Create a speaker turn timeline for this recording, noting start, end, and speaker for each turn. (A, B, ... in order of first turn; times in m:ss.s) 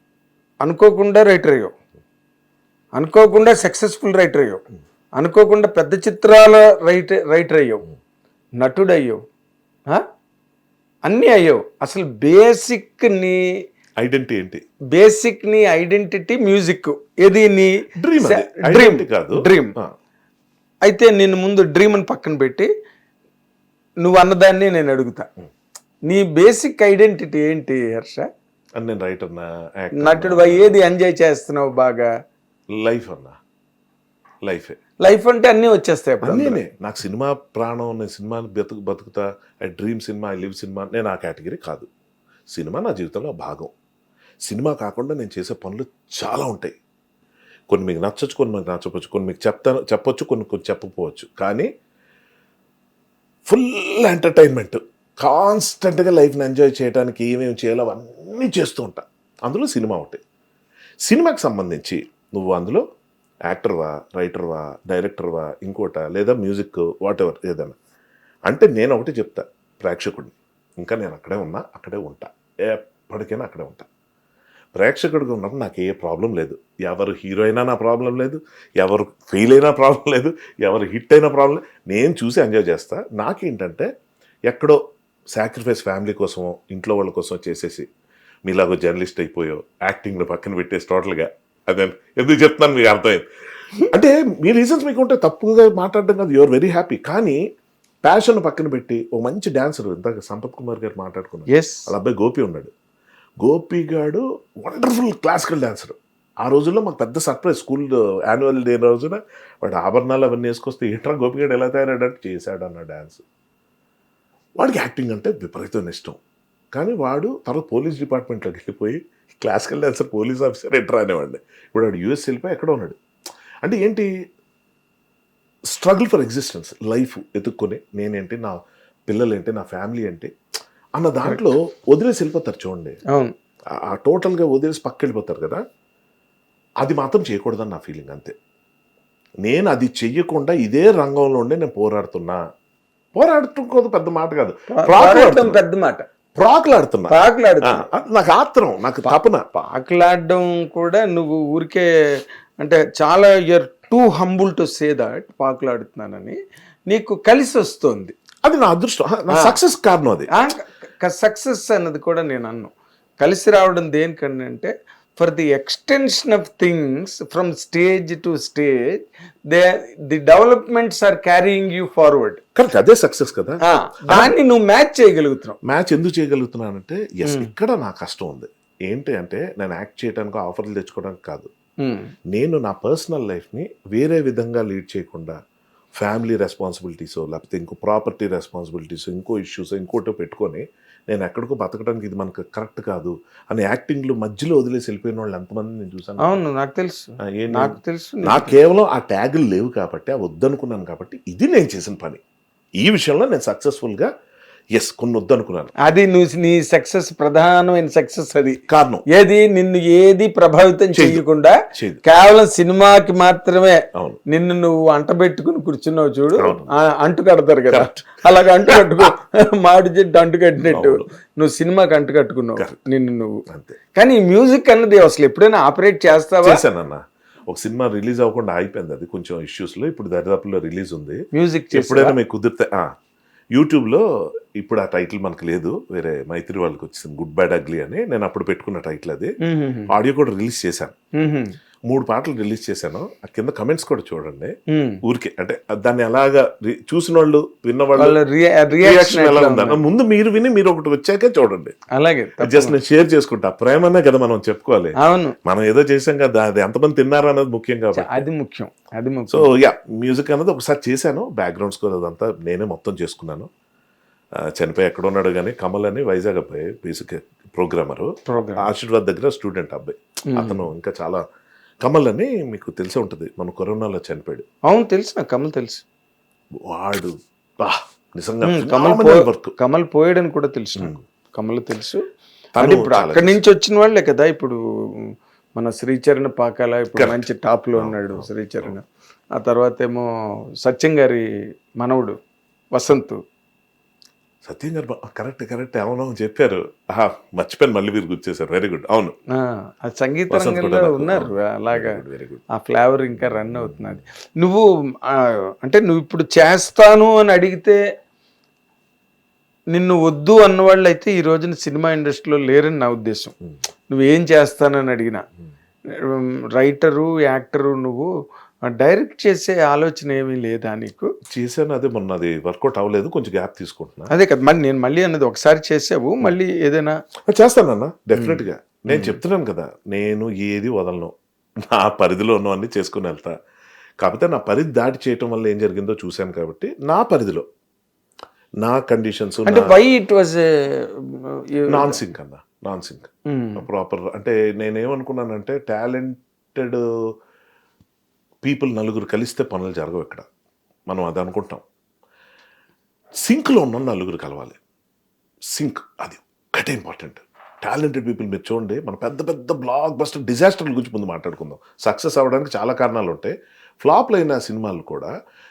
0:00.6-0:01.7 A
0:02.9-0:04.6 A
0:05.2-0:07.8 A
0:08.6-0:09.2 A
0:11.0-0:13.4 A
0:14.0-0:14.6 B
0:14.9-0:19.7 A
0:18.0-0:19.9 B
0:20.8-0:22.7 A
0:24.0-0:25.3 A
0:26.0-0:28.2 A
0:28.8-0:30.8 B
0:30.0-0:32.1 A
0:32.7-0:33.4 B
0:34.4-0:34.8 B
0:35.0-0:36.6 A
0:36.2-0:41.9 B
0:42.5-0:43.7 B
0:44.4-0:46.7 B
0:47.7-0:51.7 B
0:53.5-1:00.2 B
1:01.0-1:02.8 B
1:03.5-1:07.7 B
1:08.4-1:13.8 B
1:14.8-1:23.9 B
1:24.5-1:24.8 B
1:25.3-1:27.8 B
1:28.4-1:33.2 B
1:33.9-1:37.4 B
1:38.0-1:42.7 B
1:41.5-1:41.9 A
1:43.4-1:53.2 B
1:54.6-1:56.2 B
1:56.7-2:03.0 B
2:03.6-2:04.1 B
2:05.7-2:10.3 B
2:10.9-2:13.0 B
2:13.8-2:15.6 B
2:16.8-2:18.3 B
2:19.4-2:22.4 B
2:23.1-2:25.6 B
2:24.7-2:26.0 A
2:26.4-2:29.4 B
2:27.1-2:27.8 A
2:29.6-2:31.9 A
2:32.6-2:36.4 A
2:36.9-2:38.1 A
2:38.4-2:40.3 B
2:39.3-2:39.6 A
2:40.3-2:49.0 A
2:49.5-2:52.4 A
2:52.5-2:54.3 B
2:53.6-2:55.6 A
2:55.6-3:01.5 B
2:57.2-2:57.5 A
3:01.8-3:02.1 A
3:02.3-3:05.4 B
3:06.0-3:16.4 B
3:16.2-3:18.6 A
3:17.4-3:22.2 B
3:22.8-3:24.1 B
3:24.7-3:25.7 B
3:25.8-3:28.6 A
3:28.7-3:29.0 B
3:29.1-3:43.4 A
3:30.9-3:32.0 B
3:36.4-3:36.7 B
3:37.7-3:39.1 B
3:40.7-3:41.0 B
3:43.5-3:43.7 B
3:43.9-3:46.6 A
3:46.4-3:51.2 B
3:51.3-3:52.2 A
3:51.7-3:52.9 B
3:53.5-3:54.0 B
3:54.6-3:59.4 B
3:59.4-3:59.9 A
3:59.9-4:00.9 B
4:01.2-4:01.5 A
4:01.9-4:08.2 B
4:04.7-4:05.0 A
4:08.0-4:09.8 A
4:08.8-4:11.7 B
4:11.9-4:12.8 A
4:12.4-4:18.2 B
4:15.0-4:15.3 A
4:17.9-4:19.5 A
4:19.3-4:23.5 B
4:24.4-4:31.2 B
4:28.3-4:28.6 A
4:30.3-4:30.6 A
4:31.8-4:34.4 B
4:34.7-4:35.8 A
4:36.6-4:39.6 B
4:38.4-4:42.0 A
4:42.6-4:43.4 B
4:42.6-4:44.6 A
4:45.6-4:50.0 A
4:47.0-4:47.2 B
4:47.8-4:48.7 B
4:50.6-4:51.2 A
4:51.8-4:52.2 A
4:52.7-4:53.2 A
4:54.4-4:59.1 B
4:59.3-5:02.0 A
5:00.3-5:02.4 B
5:02.5-5:07.8 A
5:03.2-5:04.0 B
5:09.7-5:13.3 A
5:13.9-5:15.2 A
5:16.0-5:18.1 A
5:18.6-5:21.1 A
5:21.3-5:24.1 B
5:24.1-5:27.0 A
5:27.3-5:33.3 B
5:28.2-5:29.1 A
5:34.0-5:37.4 B
5:38.6-5:39.8 B
5:39.4-5:42.0 A
5:41.7-5:46.8 B
5:43.3-5:43.6 A
5:48.4-5:50.2 B
5:50.9-5:51.6 B
5:53.2-5:54.6 B
5:55.5-6:05.1 B